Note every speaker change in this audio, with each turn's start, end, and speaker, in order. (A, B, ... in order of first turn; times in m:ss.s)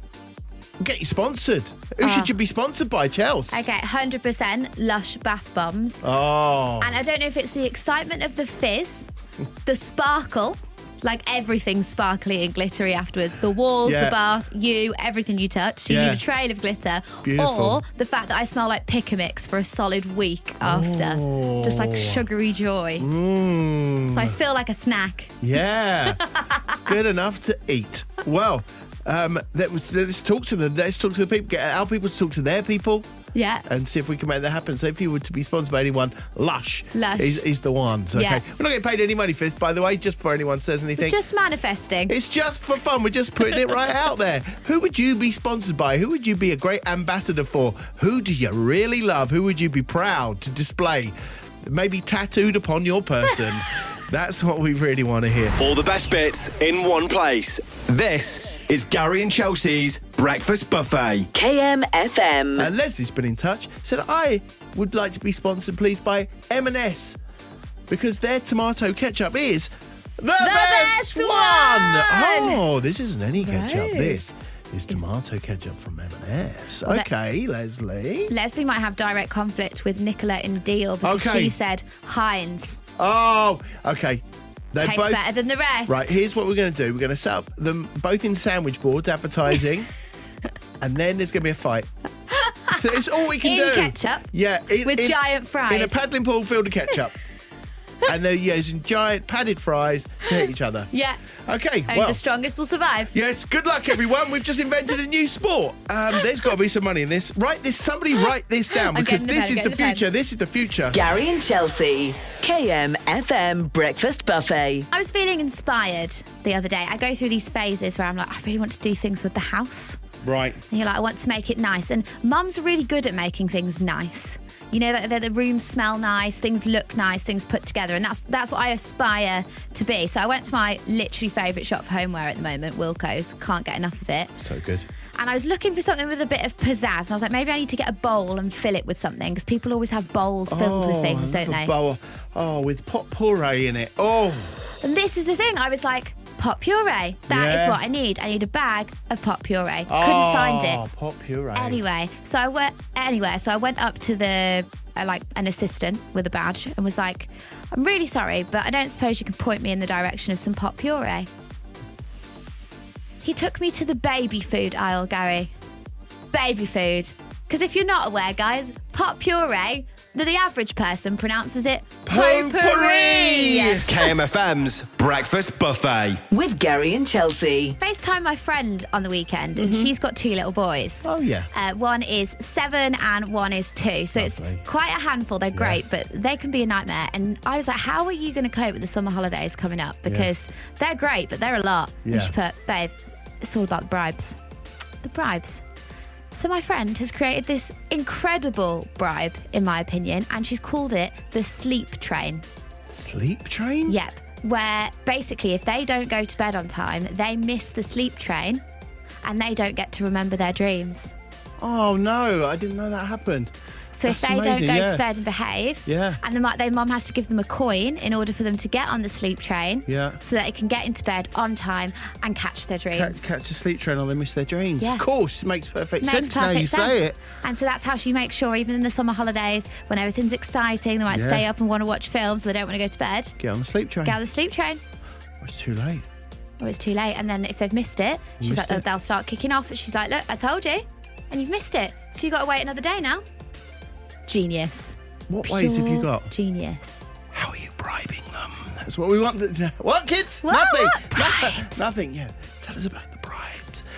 0:00.8-0:03.6 A
0:02.0-0:02.3 B
0:03.5-0:06.0 B
0:06.0-0:06.9 A
0:06.8-0:09.1 B
0:09.6-0:23.1 B
0:13.8-0:14.2 A
0:15.9-0:16.2 A
0:17.2-0:17.8 A
0:20.6-0:22.2 A
0:23.0-0:24.3 A
0:24.1-0:25.4 B
0:25.4-0:26.2 A
0:26.1-0:26.8 B
0:26.8-0:33.1 A
0:33.3-0:33.6 B
0:33.6-0:41.2 A
0:36.9-0:37.4 B
0:38.1-0:38.4 B
0:41.0-0:42.1 B
0:42.1-0:55.6 A
0:55.6-1:01.3 C
1:01.3-1:02.7 D
1:02.6-1:07.2 A
1:07.9-1:18.3 A
1:10.4-1:12.6 B
1:13.4-1:14.2 B
1:18.3-1:22.8 B
1:21.0-1:21.5 A
1:23.0-1:25.2 A
1:24.8-1:26.1 B
1:25.9-1:29.9 A
1:30.8-1:31.9 A
1:32.3-1:32.8 B
1:32.7-1:35.2 A
1:33.4-1:34.3 B
1:34.8-1:36.0 B
1:35.7-1:37.1 A
1:38.0-1:40.9 A
1:40.9-1:41.2 B
1:41.4-1:42.2 A
1:41.9-1:43.1 B
1:43.1-1:51.0 A
1:48.9-1:50.0 B
1:50.9-1:54.9 D
1:54.9-2:00.0 B
2:00.2-2:00.6 A
2:00.7-2:14.4 B
2:14.4-2:14.8 A
2:15.2-2:21.7 B
2:20.5-2:24.8 A
2:24.8-2:30.8 B
2:27.3-2:27.8 A
2:29.9-2:31.8 A
2:31.5-2:41.3 B
2:43.2-2:45.5 B
2:46.3-2:54.0 B
2:52.0-2:53.8 A
2:53.8-2:56.2 C
2:56.3-2:57.8 D
2:57.8-3:14.4 B
2:59.6-2:59.9 A
3:01.0-3:01.5 A
3:04.1-3:04.6 A
3:05.5-3:05.8 A
3:12.0-3:12.3 A
3:15.0-3:15.6 B
3:16.3-3:22.4 B
3:22.9-3:24.0 A
3:23.9-3:28.6 B
3:29.2-3:31.1 B
3:31.6-3:33.5 A
3:33.9-3:43.3 B
3:34.0-3:35.0 A
3:35.8-3:36.2 A
3:39.9-3:40.2 A
3:42.9-3:47.2 A
3:44.8-3:45.0 B
3:46.0-3:53.3 B
3:51.1-3:51.4 A
3:53.4-3:54.2 A
3:54.0-3:54.8 B
3:55.4-3:56.0 A
3:56.6-4:03.2 B
3:58.4-3:58.8 A
4:04.3-4:07.0 B
4:05.3-4:06.3 A
4:07.3-4:13.8 A
4:10.4-4:11.9 B